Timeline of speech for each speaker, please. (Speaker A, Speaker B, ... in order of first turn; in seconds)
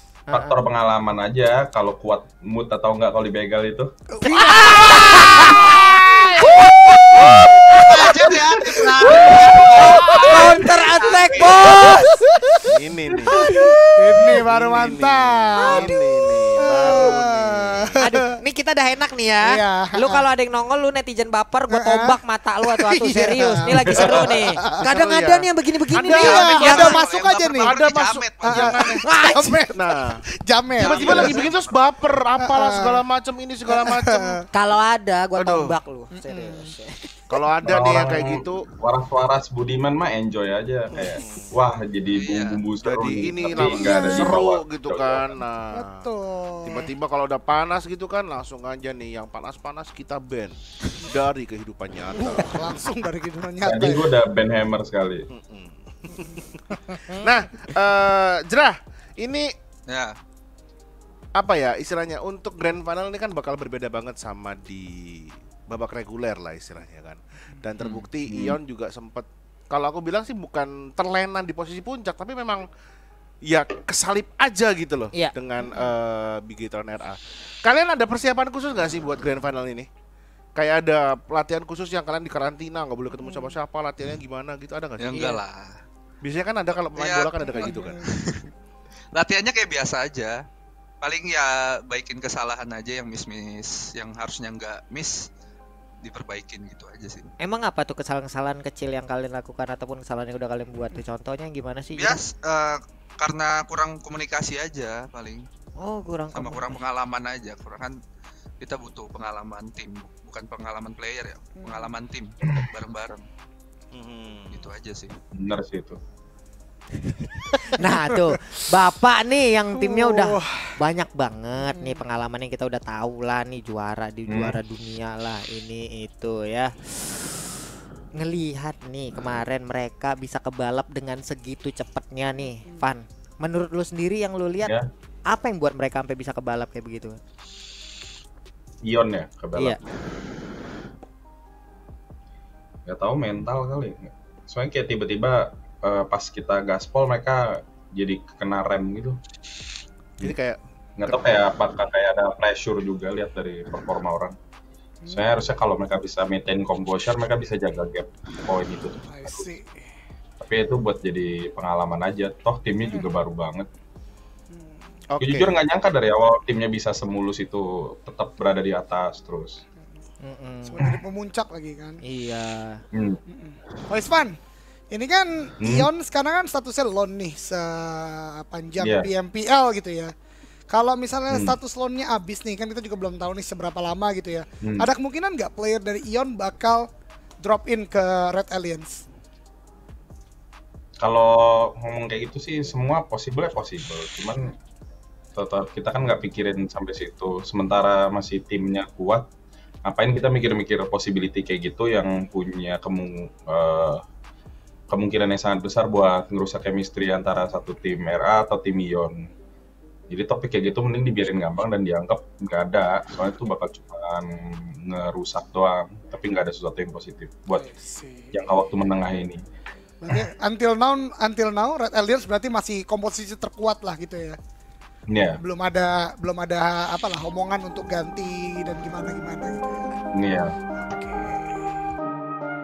Speaker A: 0.3-0.6, 4.2-8.3, 9.1-12.6, 13.3-13.8, 18.0-27.0, 29.0-29.5, 34.5-37.1, 85.1-85.4, 97.4-102.2, 105.8-106.8, 117.0-127.5, 128.2-134.7, 135.3-137.2, 170.2-170.9, 172.0-172.8
Speaker B: 0.3-3.9, 37.6-45.4, 53.6-55.3, 68.3-68.6, 115.3-116.0, 124.3-124.6, 138.8-139.8, 142.9-149.2, 151.0-154.3, 155.1-159.6, 160.4-163.7, 165.2-169.6, 175.6-175.9, 178.8-179.1, 181.3-181.6, 184.6-184.9, 191.0-194.5, 195.3-199.3, 199.8-204.0, 204.9-209.1, 210.1-217.7, 218.3-219.4, 225.1-225.4, 230.1-230.5
Speaker C: 4.2-6.7, 10.1-10.7, 13.3-15.9, 16.6-18.3, 19.4-20.3, 21.7-24.8, 26.1-27.8, 28.4-31.4, 32.4-33.0, 33.7-34.4, 36.1-36.7, 43.7-44.4, 45.7-46.9, 52.1-54.1, 75.6-75.9, 83.2-83.5, 87.4-88.1, 111.5-111.9, 117.8-118.7, 119.7-120.8, 121.5-122.1, 132.6-132.9, 155.0-155.3, 159.0-159.8, 162.8-163.1, 164.5-164.9, 170.6-172.0, 173.3-174.3, 174.9-180.1, 180.7-186.9, 187.4-189.0, 217.5-218.3, 220.0-224.4, 225.4-229.9, 230.8-231.6
Speaker D: 7.8-11.9, 26.2-28.8, 30.8-31.8, 42.1-42.6, 59.9-60.1, 85.0-85.8, 86.9-88.5, 89.1-90.4, 91.0-95.1, 96.0-97.3, 101.9-105.4, 106.3-107.9, 108.6-113.2, 114.5-115.1
Speaker E: 12.6-13.4, 14.1-18.0, 24.8-27.0, 27.6-29.0, 29.7-30.2, 30.8-34.4, 35.4-35.8, 37.3-38.7, 41.0-41.5, 42.8-46.0, 46.6-52.8, 55.3-59.5, 61.4-72.7, 73.4-79.9, 80.6-85.3, 86.2-88.0, 113.9-114.7, 150.2-151.4, 165.1-165.6